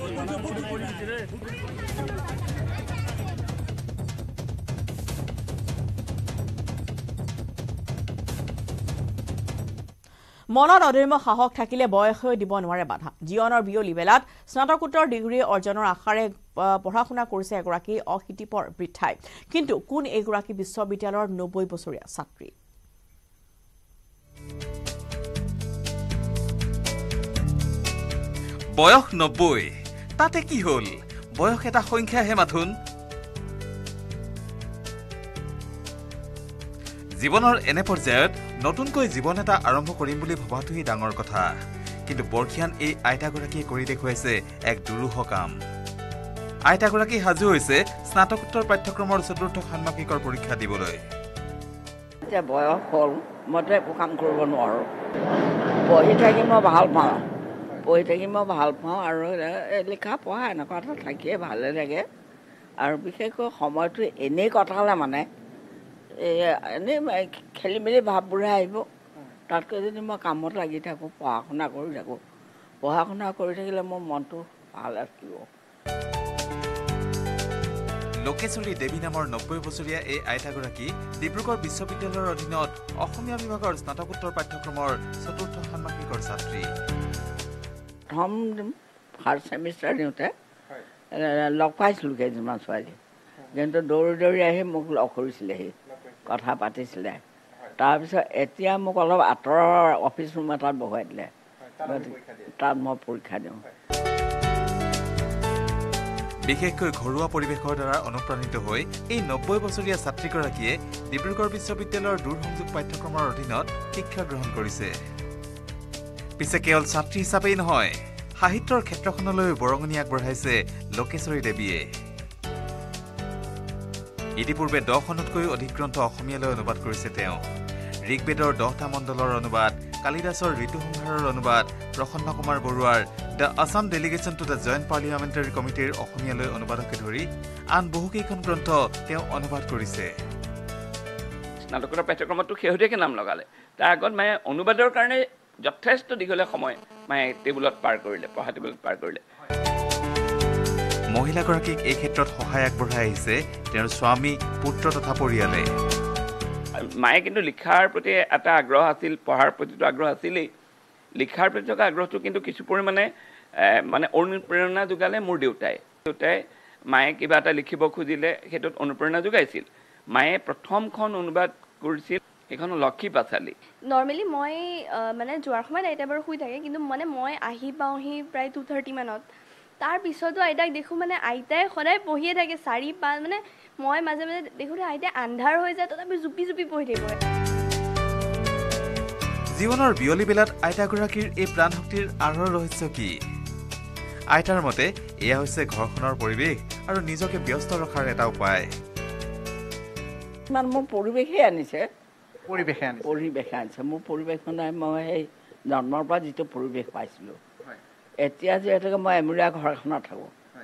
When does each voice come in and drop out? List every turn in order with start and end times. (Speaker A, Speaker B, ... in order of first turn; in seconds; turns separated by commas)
Speaker A: 10.5-22.5, Speaker B: 28.8-32.7, Speaker B: 37.2-41.5, Speaker B: 42.1-45.5, Speaker B: 46.7-51.0, Speaker C: 52.3-54.9, Speaker C: 55.9-57.2, Speaker C: 57.9-62.0, Speaker C: 62.8-65.3, Speaker C: 66.2-68.8, Speaker C: 69.5-72.2, Speaker C: 72.8-75.4, Speaker B: 78.2-86.7, Speaker C: 88.1-88.7, Speaker C: 89.2-90.3, Speaker C: 91.2-93.0, Speaker C: 93.5-95.7, Speaker C: 96.3-97.2, Speaker C: 97.8-101.3, Speaker C: 101.8-103.6, Speaker B: 106.5-114.9, Speaker B: 116.4-121.8, Speaker B: 124.4-127.4, Speaker B: 128.1-140.1, Speaker D: 141.7-149.2, Speaker B: 151.1-155.7, Speaker D: 156.8-160.5, Speaker D: 161.2-163.1, Speaker D: 163.7-173.5, Speaker E: 173.9-179.2, Speaker E: 179.8-187.2, Speaker B: 189.6-193.1, Speaker B: 194.3-198.7, Speaker C: 200.5-201.9, Speaker C: 202.5-207.4, Speaker C: 208.2-210.3